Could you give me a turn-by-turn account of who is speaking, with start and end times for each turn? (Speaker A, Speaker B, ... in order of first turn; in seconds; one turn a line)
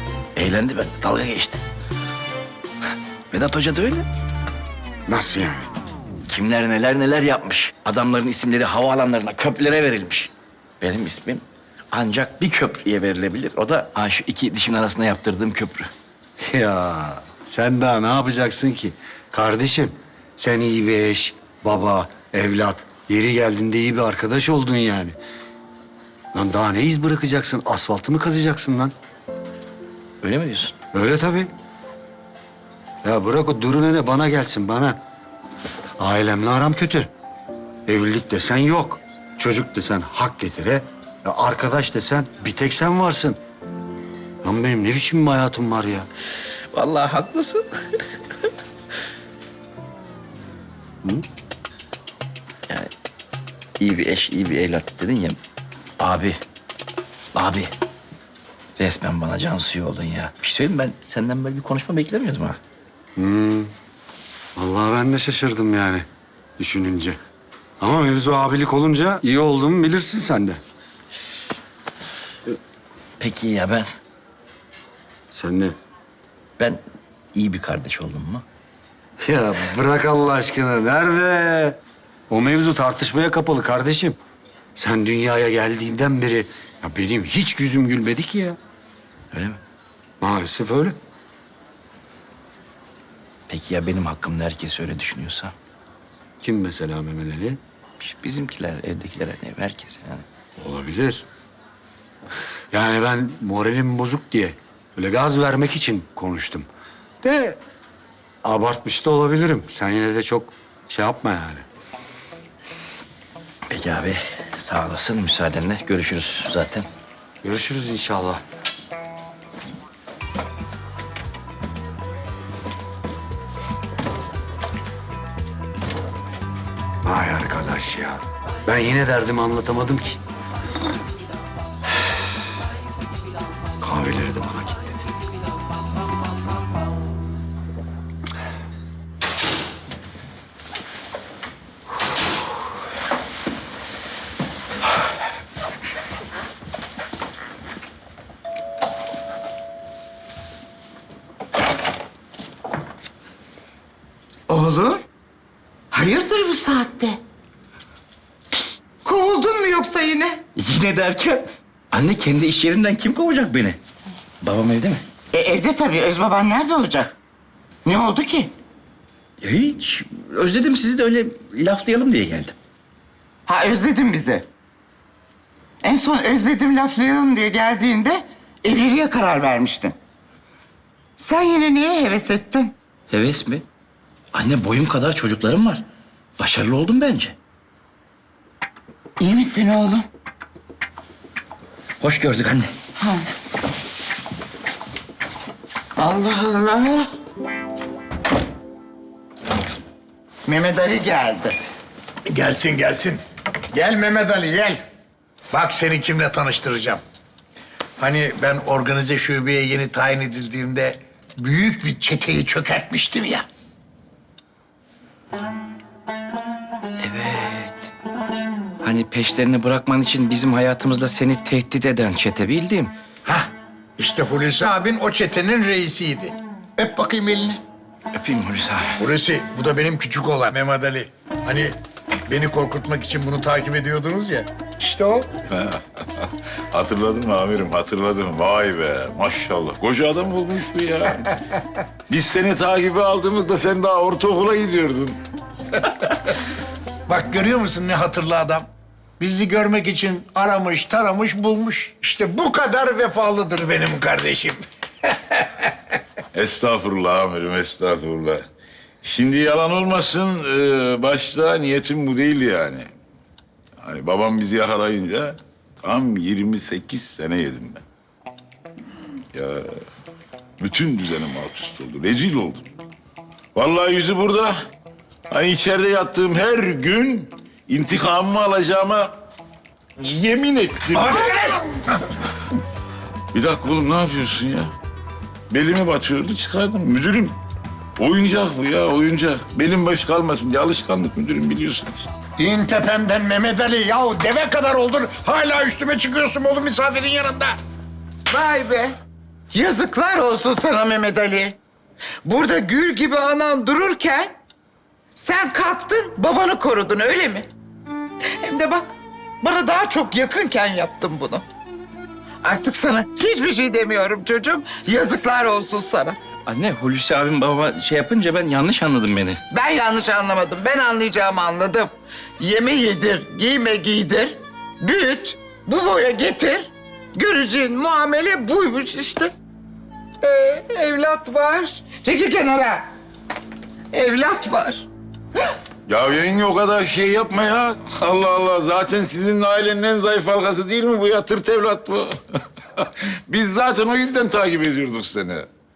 Speaker A: 0.3-1.6
Speaker A: 3.3-4.1
Speaker B: 5.1-5.7
Speaker A: 6.3-15.9
Speaker B: 16.4-25.1
Speaker B: 26.3-28.9
Speaker A: 30.2-30.7
Speaker B: 30.9-31.5
Speaker B: 33.0-35.0
Speaker B: 36.0-37.1
Speaker B: 37.9-43.4
Speaker B: 44.4-46.1
Speaker A: 46.7-48.0
Speaker A: 53.8-55.4
Speaker A: 56.0-56.4
Speaker A: 57.3-57.7
Speaker A: 58.8-62.6
Speaker B: 63.1-63.7
Speaker B: 64.5-66.0
Speaker B: 66.6-67.2
Speaker B: 67.8-70.6
Speaker A: 73.2-73.9
Speaker B: 75.3-75.7
Speaker A: 77.3-78.4
Speaker B: 79.2-81.8
Speaker B: 82.3-84.2
Speaker B: 84.8-88.6
Speaker A: 89.3-89.6
Speaker B: 90.2-91.0
Speaker A: 93.5-95.5
Speaker B: 96.4-97.6
Speaker A: 98.0-100.2
Speaker B: 100.6-101.2
Speaker B: 102.7-106.7
Speaker B: 107.2-107.6
Speaker B: 108.4-111.6
Speaker A: 113.7-116.9
Speaker B: 117.4-118.4
Speaker B: 127.0-130.2
Speaker B: 133.8-134.9
Speaker C: 154.5-155.0
Speaker C: 155.9-157.2
Speaker C: 159.0-160.4
Speaker A: 160.6-163.8
Speaker A: 164.4-165.0
Speaker C: 165.3-167.1
Speaker C: 167.8-168.5
Speaker A: 169.4-172.5
Speaker C: 173.4-174.5
Speaker C: 175.8-179.9
Speaker C: 181.2-182.7
Speaker A: 183.1-183.6
Speaker A: 184.3-185.8
Speaker A: 186.4-187.3
Speaker C: 189.2-190.1
Speaker A: 192.0-192.7
Speaker C: 193.0-193.3
Speaker C: 196.0-197.1
Speaker C: 200.4-201.6
Speaker D: 202.3-203.2
Speaker D: 203.7-204.8
Speaker D: 205.5-207.0
Speaker D: 208.0-213.4
Speaker A: 217.0-217.9
Speaker A: 218.8-222.9
Speaker D: 223.2-227.6
Speaker A: 228.1-229.0
Speaker D: 229.0-231.8
Speaker D: 232.3-235.3
Speaker E: 235.5-241.4
Speaker E: 242.1-245.2
Speaker D: 247.1-248.7
Speaker D: 249.2-255.7
Speaker E: 256.3-258.4
Speaker E: 259.0-262.9
Speaker E: 263.8-267.8
Speaker E: 269.3-269.8
Speaker E: 270.6-272.6
Speaker E: 273.5-274.5
Speaker E: 275.3-279.1
Speaker E: 280.0-281.6
Speaker E: 283.3-284.7
Speaker E: 285.5-287.3
Speaker E: 288.0-292.1
Speaker D: 292.4-297.6
Speaker C: 298.3-298.9
Speaker C: 299.5-301.6
Speaker C: 302.2-304.4
Speaker C: 305.1-307.5
Speaker C: 308.4-311.4
Speaker C: 312.4-316.2
Speaker A: 316.5-319.4
Speaker C: 319.5-329.3
Speaker C: 330.2-332.9
Speaker C: 333.9-334.9
Speaker E: 335.9-342.2
Speaker E: 342.7-345.5